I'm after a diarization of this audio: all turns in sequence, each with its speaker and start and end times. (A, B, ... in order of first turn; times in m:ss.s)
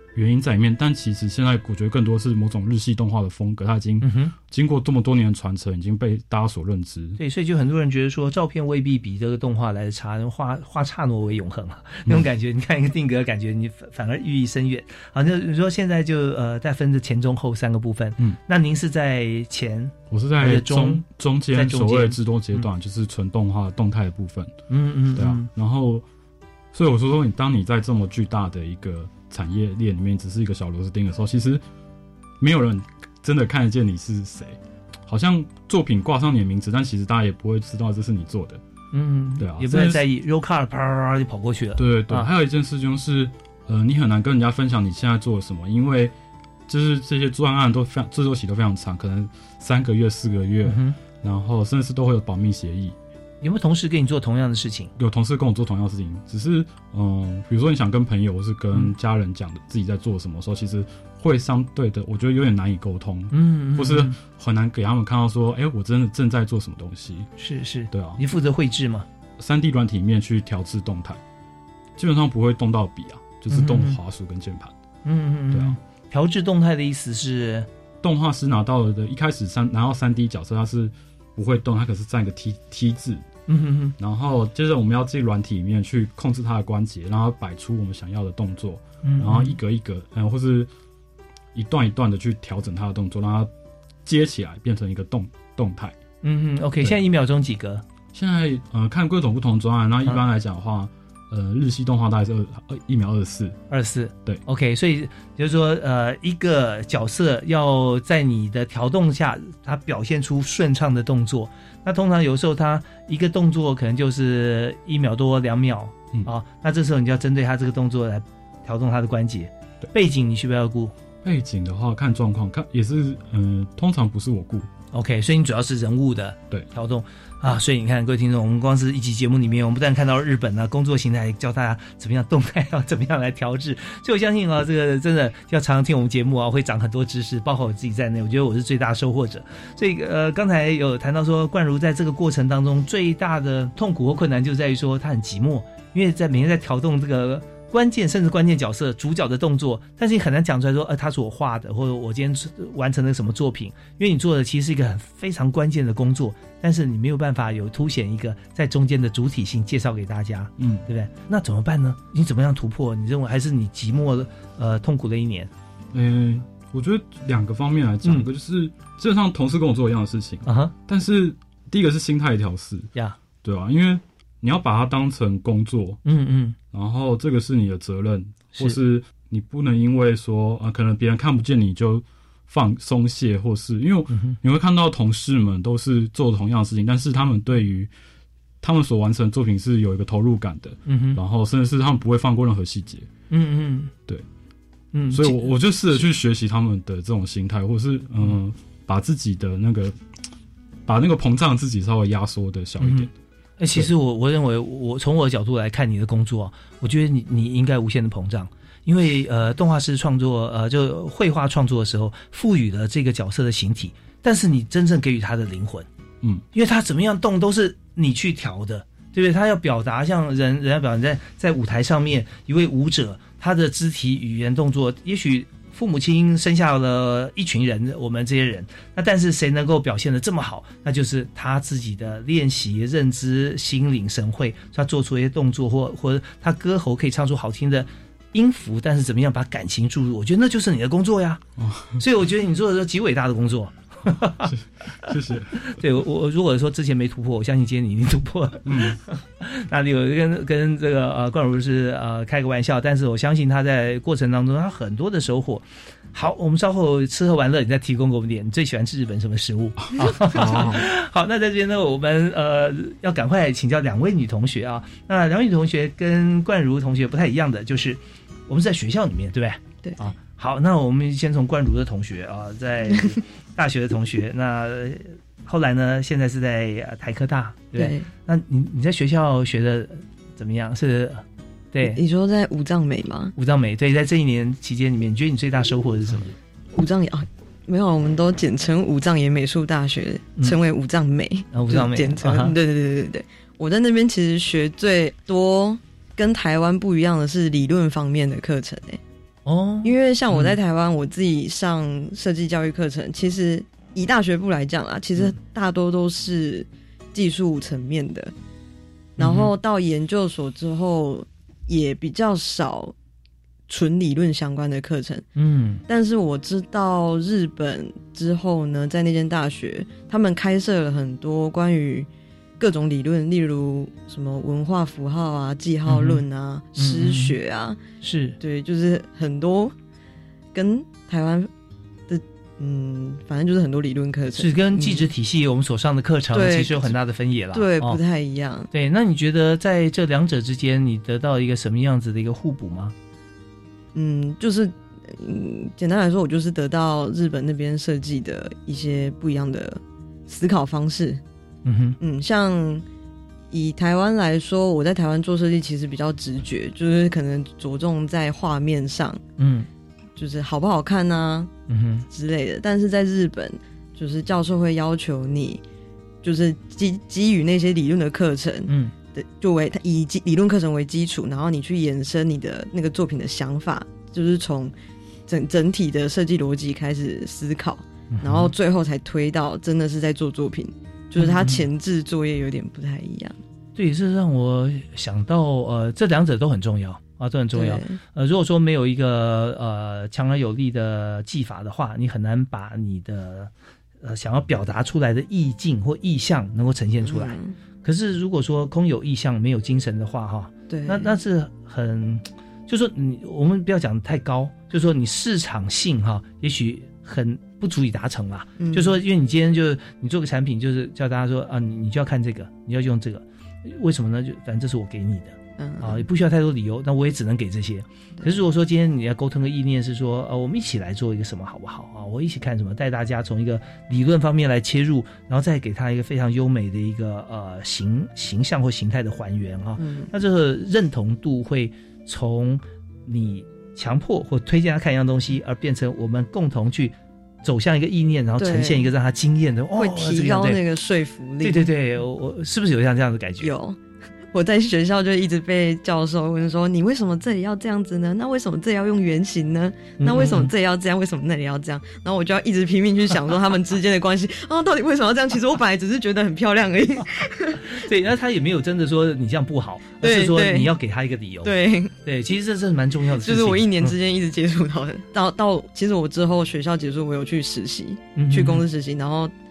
0:00.1-0:07.2 A
0:04.0-0:04.3 B
0:07.2-0:22.6 B
0:20.1-0:24.5 A
0:24.7-0:25.5 B
0:25.2-0:26.0 A
0:26.7-0:31.6 A
0:32.4-0:38.6 A
0:38.9-0:42.3 B
0:39.4-0:40.0 A
0:41.8-0:46.1 A
0:46.7-0:52.9 A
0:50.6-0:51.0 B
0:53.4-0:54.9 B
0:55.0-1:07.3 A
1:03.3-1:04.2 B
1:07.4-1:09.1 B
1:07.9-1:08.2 A
1:09.4-1:11.2 A
1:12.0-1:14.7 A
1:13.5-1:14.0 B
1:15.0-1:17.7 B
1:18.0-1:23.2 A
1:23.5-1:23.9 B
1:24.0-1:30.7 A
1:29.0-1:29.6 B
1:31.5-1:33.5 A
1:34.0-1:35.9 A
1:36.2-1:37.8 B
1:38.1-1:43.6 A
1:43.7-2:00.9 B
2:01.2-2:04.7 A
2:04.9-2:45.5 B
2:40.6-2:40.8 A
2:45.9-2:52.9 A
2:50.4-2:50.7 B
2:53.4-2:56.0 A
2:56.0-2:56.6 B
2:56.7-3:07.9 A
3:04.1-3:04.4 B
3:08.6-3:13.1 A
3:10.8-3:11.2 B
3:13.3-3:13.9 B
3:14.9-3:16.0 B
3:15.1-3:19.9 A
3:20.8-3:23.1 A
3:22.8-3:23.1 B
3:23.6-3:35.9 B
3:36.5-4:01.4 B
4:01.6-4:02.0 A
4:02.0-4:04.5 B
4:04.4-4:05.7 A
4:05.6-4:42.0 B
4:08.6-4:09.0 A
4:19.9-4:20.8 A
4:29.8-4:30.1 C
4:32.9-4:33.2 C
4:37.7-4:38.1 C
4:41.8-4:43.3 C
4:43.4-4:46.3 B
4:46.7-4:59.0 C
4:51.5-4:52.5 B
4:59.4-5:00.6 B
4:59.8-5:08.3 C
5:09.2-5:09.5 B
5:09.2-5:12.9 C
5:13.7-5:15.3 C
5:15.4-5:15.8 B
5:15.9-5:27.8 C
5:25.9-5:26.2 B
5:26.8-5:27.4 B
5:28.0-5:28.4 B
5:28.4-5:29.7 C
5:30.5-5:31.5 C
5:32.1-5:35.1 C
5:34.4-5:38.0 B
5:36.3-5:36.9 C
5:37.5-5:38.7 C
5:38.7-5:42.9 B
5:43.9-5:51.2 C
5:51.6-5:52.0 B
5:52.0-5:52.8 C
5:53.5-5:59.2 C
5:59.4-5:59.7 B
6:00.2-6:01.5 C
6:01.7-6:02.0 B
6:02.1-6:05.6 C
6:06.2-6:14.7 C
6:08.7-6:08.9 B
6:15.3-6:23.4 C
6:18.1-6:18.5 B
6:21.2-6:21.6 B
6:23.8-6:33.5 B
6:27.5-6:28.0 C
6:34.0-7:20.6 B
6:37.0-6:37.5 C
6:40.7-6:41.1 C
6:48.6-6:49.0 C
6:55.6-6:56.0 C
7:09.8-7:10.1 C
7:18.4-7:18.9 C
7:19.7-7:21.7 C
7:21.4-7:23.5 B
7:23.4-7:23.8 C
7:24.3-7:37.7 C
7:30.0-7:30.5 B
7:37.6-7:41.5 B
7:40.0-7:40.7 C
7:41.4-7:41.9 C
7:42.0-7:43.9 B
7:43.2-7:49.3 C
7:48.2-7:48.6 B